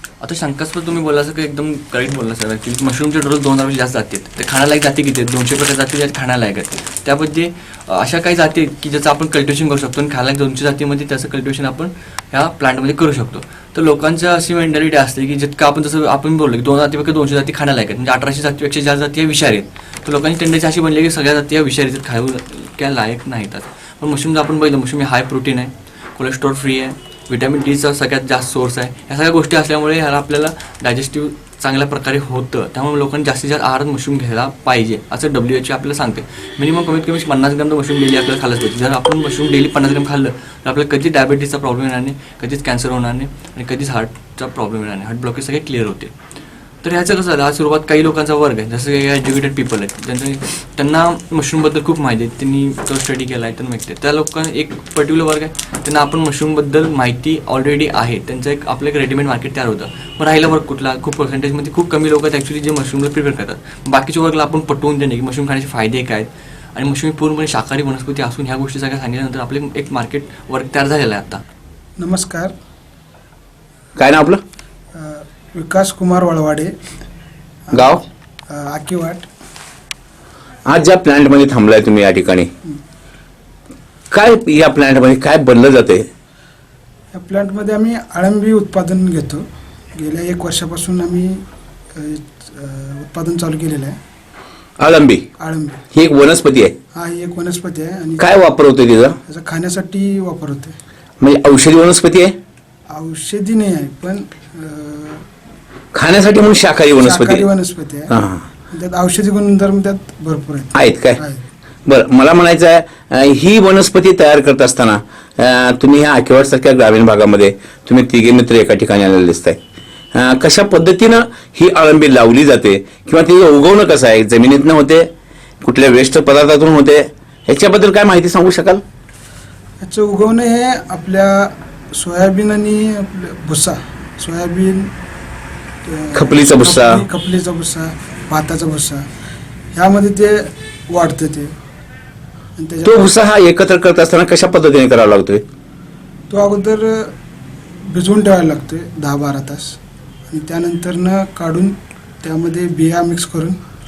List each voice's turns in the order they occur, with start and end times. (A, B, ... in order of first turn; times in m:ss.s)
0:00.2-0:46.1 A
0:46.8-1:11.4 A
1:12.0-1:12.5 B
1:14.0-1:14.4 C
1:14.9-1:16.7 B
1:17.7-1:17.9 B
1:17.7-1:18.0 C
1:18.5-1:19.3 B
1:20.6-1:22.5 C
1:24.1-1:26.1 C
1:27.1-1:31.4 B
1:32.0-1:34.0 B
1:34.8-1:35.3 C
1:35.4-1:35.8 B
1:35.9-1:36.7 C
1:36.9-1:38.2 B
1:38.2-1:39.2 C
1:39.3-1:40.7 B
1:41.2-1:42.3 C
1:42.9-1:45.2 B
1:45.9-1:47.5 C
1:47.0-1:48.1 B
1:48.1-1:48.4 C
1:48.7-1:51.4 B
1:50.7-1:51.2 C
1:51.8-1:59.6 C
2:00.1-2:05.1 C
2:05.6-2:08.8 C
2:09.8-2:14.9 B
2:15.8-2:19.0 B
2:16.1-2:17.0 C
2:19.7-2:21.5 B
2:22.6-2:23.1 B
2:22.8-2:25.4 C
2:26.3-2:27.1 B
2:27.9-2:29.8 B
2:30.3-2:33.6 B